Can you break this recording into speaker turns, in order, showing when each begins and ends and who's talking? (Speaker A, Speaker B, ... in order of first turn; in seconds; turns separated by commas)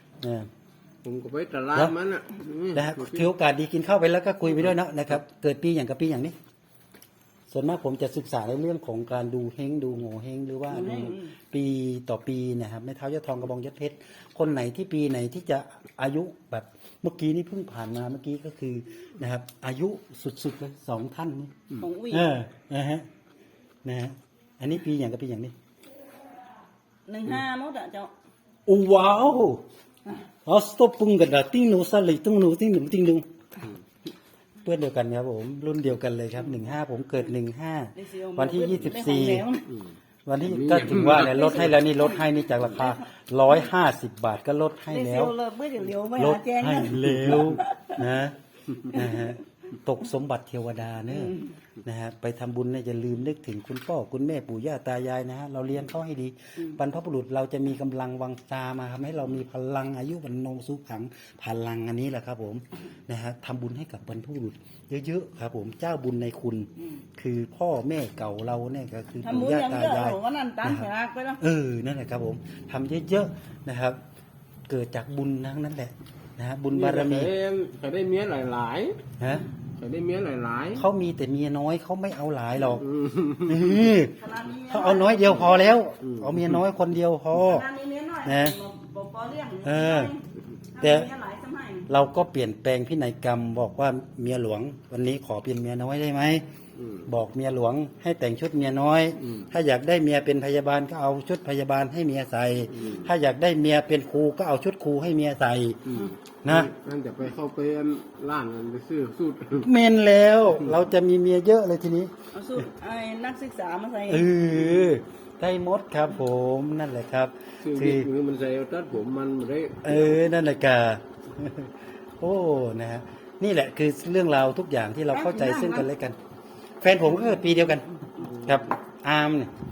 Speaker A: 0.2-0.5, Speaker B: 1.0-3.3, Speaker A: 2.7-6.3, Speaker A: 7.5-21.6, Speaker C: 10.7-11.3, Speaker C: 21.8-22.3, Speaker A: 22.1-23.1, Speaker A: 23.8-25.5, Speaker C: 27.1-28.1, Speaker A: 28.7-29.6, Speaker A: 30.4-33.3, Speaker A: 34.6-39.5, Speaker C: 38.0-39.7, Speaker A: 40.2-45.3, Speaker B: 40.4-41.5, Speaker C: 41.0-42.2, Speaker C: 44.9-48.0, Speaker A: 46.1-70.9, Speaker C: 48.9-49.3, Speaker C: 51.1-51.5, Speaker C: 69.2-71.4, Speaker A: 71.4-74.0, Speaker A: 74.7-77.3, Speaker B: 76.7-79.0, Speaker A: 79.2-79.4, Speaker B: 79.8-80.9, Speaker A: 80.8-82.9, Speaker B: 82.7-83.9, Speaker A: 83.4-84.1, Speaker C: 84.2-85.7, Speaker A: 84.7-87.6, Speaker B: 86.0-86.6, Speaker C: 87.3-90.2, Speaker A: 88.2-88.6, Speaker A: 89.6-90.1, Speaker C: 90.7-91.9, Speaker A: 90.8-91.1, Speaker A: 91.9-96.5, Speaker B: 96.8-97.1, Speaker A: 97.1-105.8, Speaker B: 102.7-103.1, Speaker B: 105.8-109.7, Speaker A: 106.4-106.7, Speaker A: 109.6-112.1, Speaker C: 112.3-114.3, Speaker A: 114.1-118.1, Speaker B: 117.6-120.2, Speaker A: 119.8-126.2, Speaker C: 125.1-125.9, Speaker A: 126.8-127.9, Speaker B: 128.4-128.7, Speaker A: 128.4-129.5